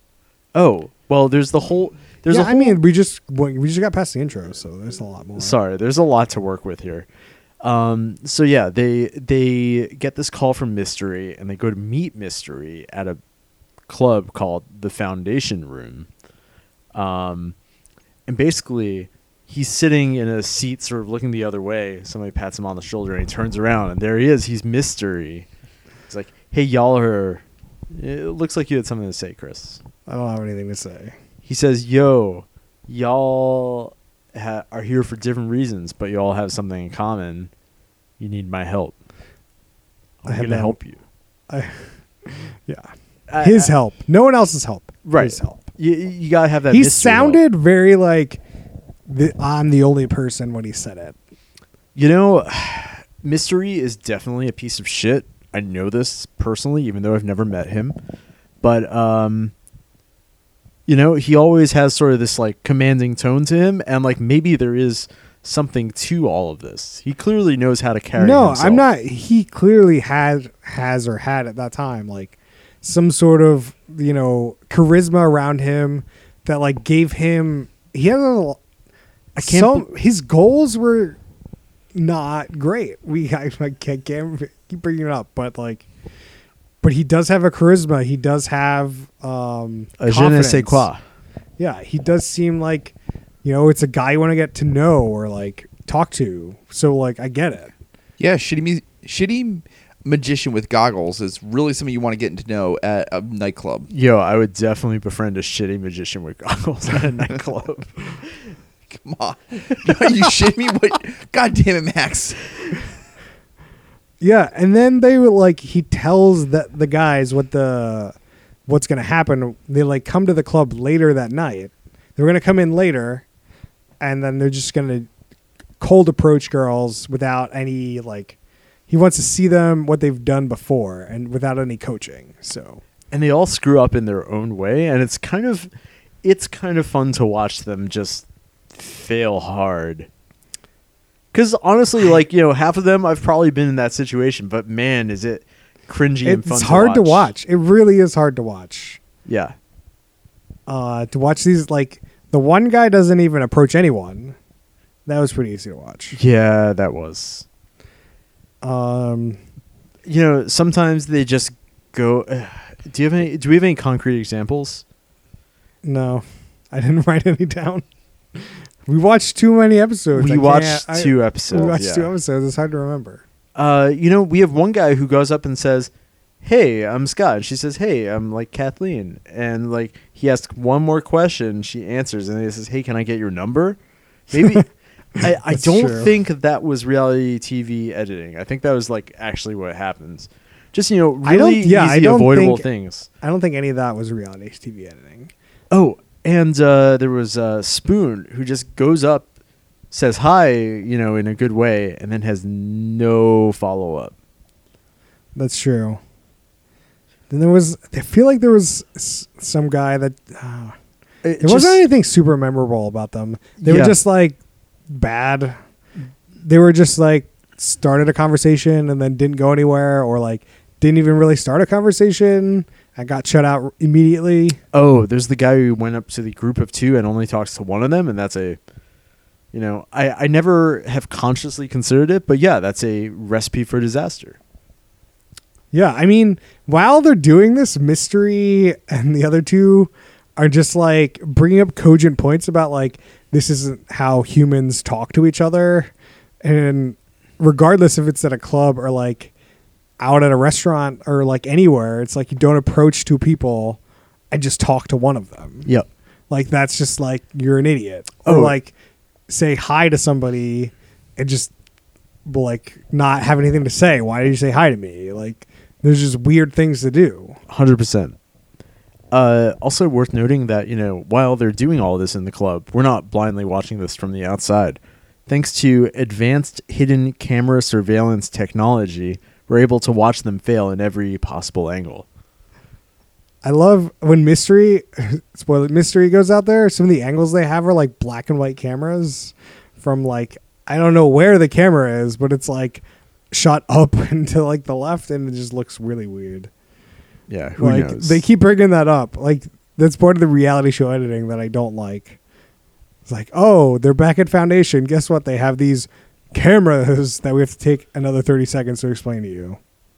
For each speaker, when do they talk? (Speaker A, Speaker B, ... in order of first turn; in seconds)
Speaker A: 0.5-2.8, 5.4-7.1, 7.6-13.2, 13.9-16.1, 16.9-17.5, 18.3-25.5, 26.1-29.8, 31.4-37.5, 38.2-38.9, 40.2-41.0, 43.3-43.7, 45.0-47.4, 52.0-58.0, 58.6-59.5, 60.9-68.8, 79.4-79.8, 90.0-91.0, 103.9-108.2, 133.1-135.7, 136.2-140.1, 141.3-147.3, 149.2-149.5, 156.1-157.4, 160.1-164.8, 170.1-172.1, 173.6-175.9, 176.4-183.8, 184.3-193.1, 195.7-199.3, 199.9-204.1, 211.2-211.8, 213.6-214.0, 224.7-228.6, 229.5-234.4, 258.2-258.6, 267.5-268.1, 269.1-282.1, 297.3-298.2
Speaker B: 2.3-5.5, 30.1-31.1, 40.2-40.8, 41.5-42.9, 43.4-45.6, 46.7-48.4, 49.1-51.2, 68.2-78.6, 79.3-81.2, 81.9-85.8, 86.8-90.9, 91.6-97.7, 114.2-118.2, 118.7-123.2, 124.0-125.1, 125.8-128.4, 128.9-132.8, 146.2-149.0, 150.7-154.3, 155.1-156.2, 158.6-159.4, 165.8-167.8, 168.4-173.2, 185.2-186.1, 191.2-192.7, 193.2-195.3, 205.3-206.0, 207.3-210.8, 211.4-214.4, 214.9-215.5, 216.4-224.6, 235.7-249.3, 250.0-253.8, 254.3-255.7, 256.3-258.7, 259.3-261.5, 262.2-267.4, 283.4-296.5, 297.6-302.2, 303.1-309.6
Speaker C: 98.2-103.9, 108.9-112.8